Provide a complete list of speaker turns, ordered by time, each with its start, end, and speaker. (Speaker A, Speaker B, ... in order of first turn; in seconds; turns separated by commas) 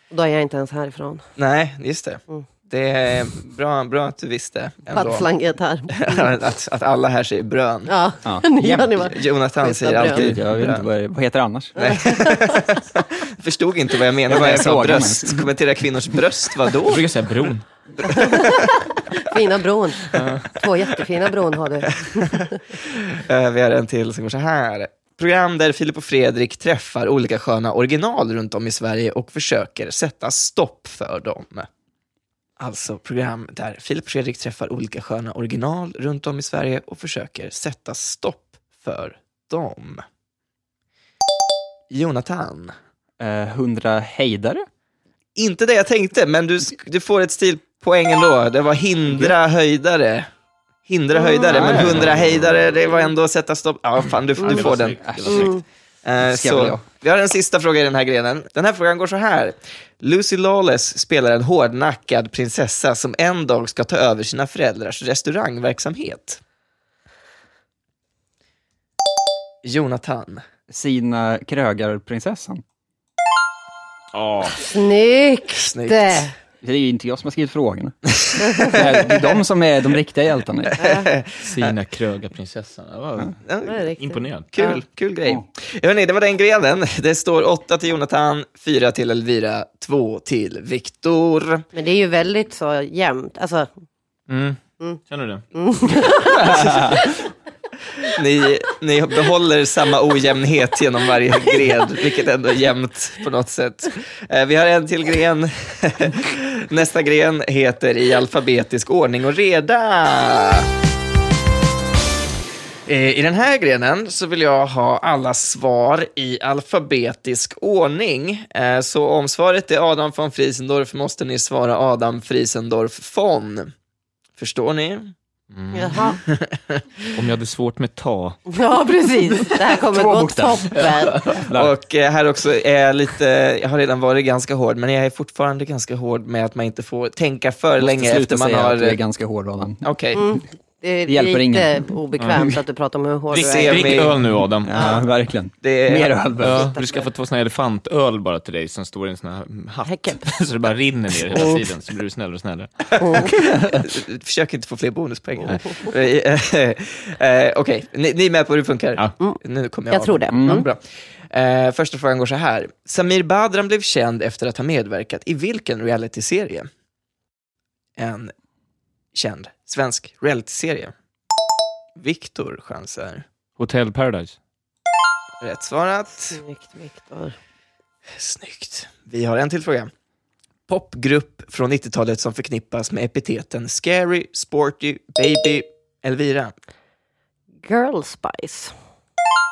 Speaker A: 0.1-1.2, Speaker B: 1.4-5.3, Speaker A: 4.9-6.3, Speaker B: 5.9-7.9, Speaker A: 7.9-10.3, Speaker C: 8.2-9.1, Speaker B: 9.0-10.8, Speaker C: 10.0-11.8, Speaker B: 11.8-17.0, Speaker A: 11.8-12.4, Speaker C: 14.3-15.5, Speaker D: 16.9-17.6, Speaker B: 18.0-18.6, Speaker A: 18.1-22.5, Speaker D: 20.1-20.5, Speaker B: 22.1-31.7, Speaker B: 32.6-40.0, Speaker B: 41.9-42.7, Speaker C: 43.2-44.6, Speaker B: 45.4-50.3, Speaker B: 50.9-55.5, Speaker C: 51.5-52.0, Speaker D: 51.7-52.0, Speaker D: 54.4-55.6, Speaker C: 55.0-55.5, Speaker A: 55.3-55.6, Speaker B: 56.0-66.4, Speaker C: 56.2-56.8, Speaker B: 69.6-70.4, Speaker C: 70.7-72.6, Speaker D: 74.1-74.6, Speaker A: 74.6-76.3, Speaker B: 75.6-76.3, Speaker C: 76.6-78.0, Speaker B: 78.2-79.3, Speaker C: 78.5-80.8, Speaker A: 80.8-81.1, Speaker B: 80.8-81.7, Speaker D: 81.4-83.4, Speaker B: 83.4-83.8, Speaker A: 83.7-84.8, Speaker D: 84.0-84.5, Speaker B: 84.5-91.6, Speaker A: 91.7-93.7, Speaker D: 94.3-95.5, Speaker A: 95.5-97.0, Speaker C: 96.5-97.0, Speaker B: 98.0-110.7, Speaker B: 112.8-123.7, Speaker B: 124.4-125.1, Speaker D: 125.5-126.2, Speaker A: 125.7-126.2, Speaker B: 126.2-126.8, Speaker D: 127.1-128.4, Speaker A: 128.5-131.3, Speaker C: 129.7-131.7, Speaker D: 130.8-131.4, Speaker B: 131.5-139.0, Speaker C: 137.8-139.8, Speaker B: 139.8-140.2, Speaker A: 140.2-144.1, Speaker C: 141.1-142.5, Speaker D: 142.2-142.4, Speaker D: 143.3-144.7, Speaker B: 143.3-144.2, Speaker C: 144.4-146.7, Speaker A: 144.7-145.0, Speaker B: 145.6-146.2, Speaker D: 146.4-153.3, Speaker A: 146.5-147.1, Speaker A: 149.8-150.3, Speaker A: 151.3-151.6, Speaker B: 153.0-166.7, Speaker A: 153.0-153.3, Speaker A: 159.9-160.7, Speaker C: 160.3-160.6, Speaker B: 168.0-168.3, Speaker B: 169.1-170.9, Speaker B: 172.0-173.2, Speaker D: 173.6-174.4, Speaker B: 175.4-176.4, Speaker A: 176.3-177.3, Speaker B: 178.1-179.9, Speaker B: 180.7-186.5, Speaker A: 187.6-188.7